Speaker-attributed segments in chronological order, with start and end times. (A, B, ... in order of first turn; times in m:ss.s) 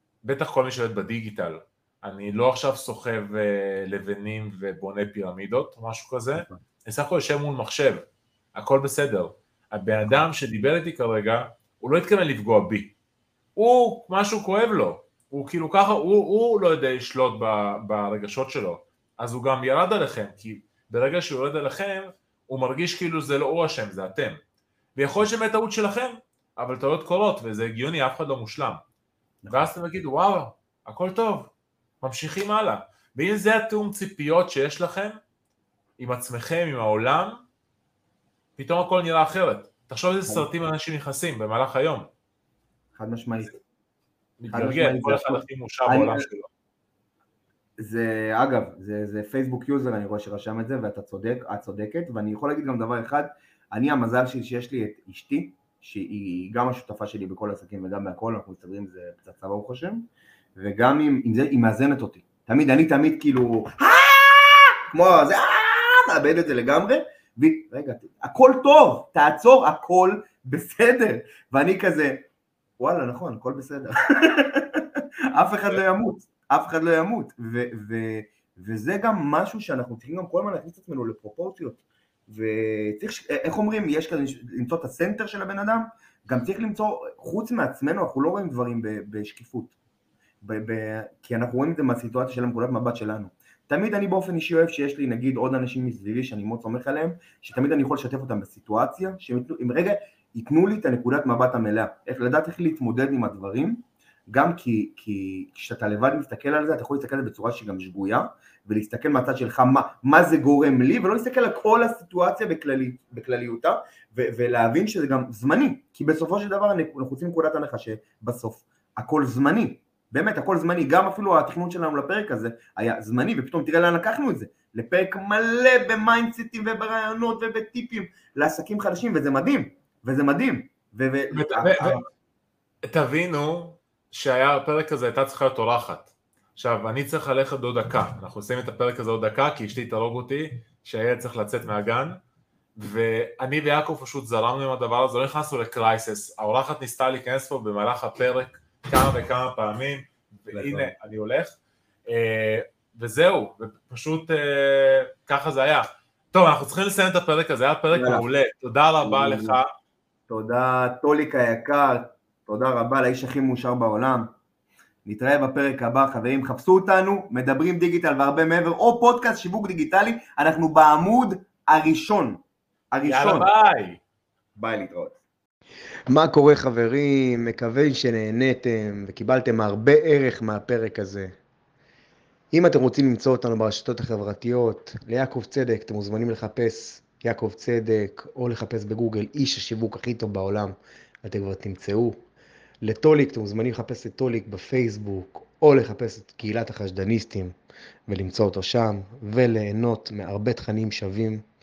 0:00.2-0:12.9 A
0:13.6-0:24.4 A
0:25.0-0:28.8 A
0:29.4-0:29.7 B
0:29.5-0:35.2 A
0:36.0-0:37.4 A
0:38.6-0:42.1 A
0:43.0-0:43.6 B
0:44.4-0:46.5 A
0:44.5-0:46.3 B
0:47.8-1:00.0 B
1:00.6-1:12.3 B
1:12.8-1:29.8 B
1:30.4-2:12.0 B
2:11.3-2:12.0 A
2:12.8-2:22.2 A
2:22.8-2:31.6 A
2:30.5-2:30.9 B
2:32.1-2:39.7 A
2:37.9-2:38.2 B
2:39.0-2:39.6 B
2:40.3-2:44.3 B
2:45.0-2:53.5 B
2:53.1-2:54.0 A
2:54.6-2:55.2 B
2:56.1-3:01.4 C
3:02.5-3:12.2 C
3:12.8-3:17.5 C
3:18.1-3:21.4 C